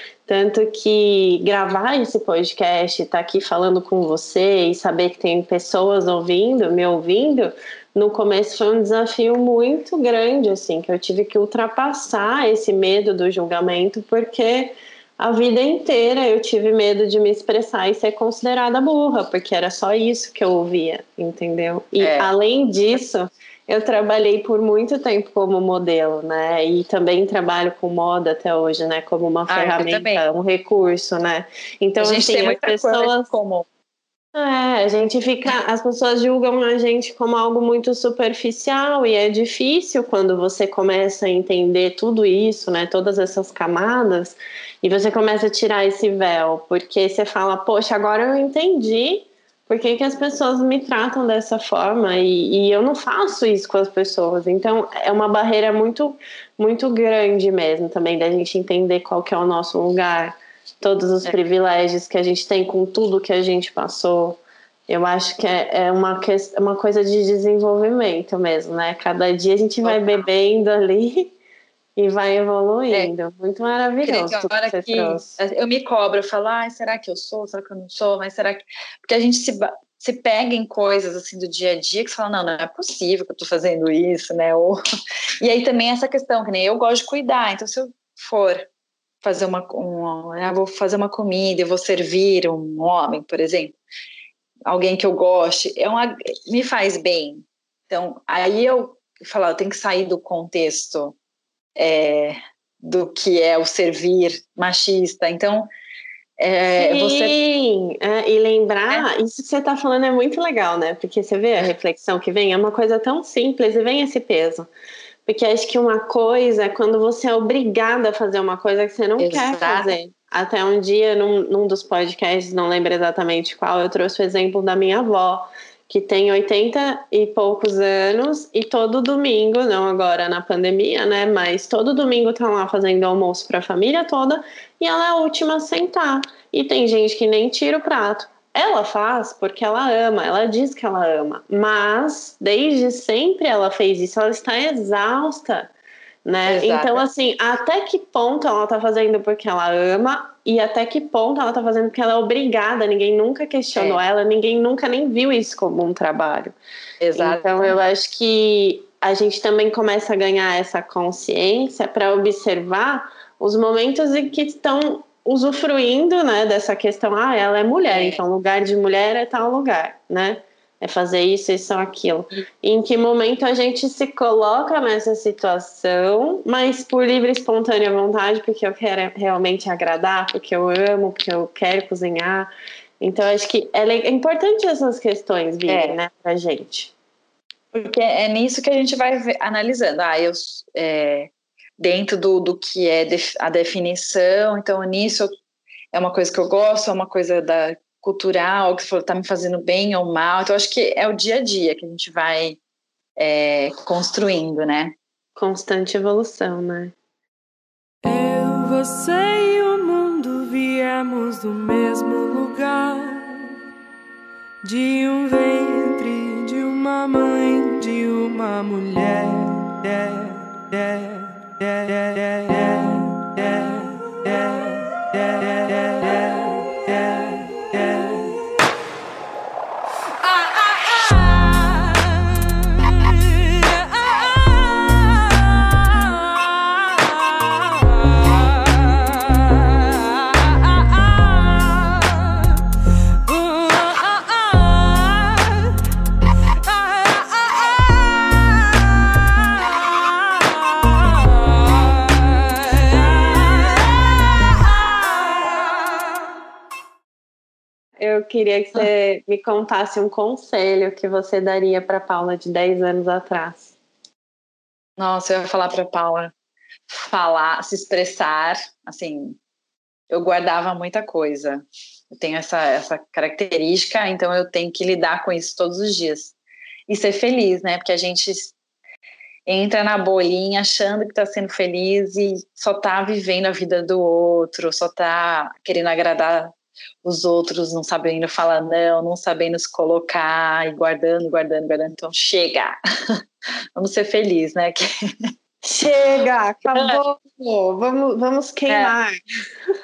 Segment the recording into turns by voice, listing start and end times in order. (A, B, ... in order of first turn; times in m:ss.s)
0:00.3-0:33.3 A
0:22.0-0:22.3 B
0:29.5-0:30.2 B
0:32.0-0:33.7 B
0:34.3-1:11.3 A
1:09.8-1:10.3 B
1:12.0-1:15.4 A
1:14.0-1:24.8 B
1:25.4-1:28.7 B
1:29.2-1:33.8 B
1:34.7-1:41.2 B
1:41.8-1:45.7 B
1:46.4-1:47.4 B
1:46.7-1:54.7 A
1:55.3-2:25.7 A
1:59.2-1:59.9 B
2:26.2-2:36.6 A
2:26.4-2:27.0 B
2:33.8-2:34.0 B
2:37.0-2:37.8 B
2:37.2-3:06.9 A
2:47.8-2:48.2 B
3:05.7-3:06.0 B
3:07.7-3:15.3 B
3:15.9-3:22.6 B
3:23.2-3:25.0 B
3:25.4-3:26.9 A
3:28.0-3:33.2 C
3:34.6-3:39.5 C
4:18.0-4:23.7 A
4:25.0-4:26.3 B
4:26.9-4:29.4 B
4:30.1-4:36.4 B
4:36.9-4:38.6 B
4:39.5-4:46.5 B
4:47.0-4:53.2 B
4:53.8-4:55.3 B
4:55.6-4:59.2 A
4:56.7-4:57.0 B
4:58.7-4:59.0 B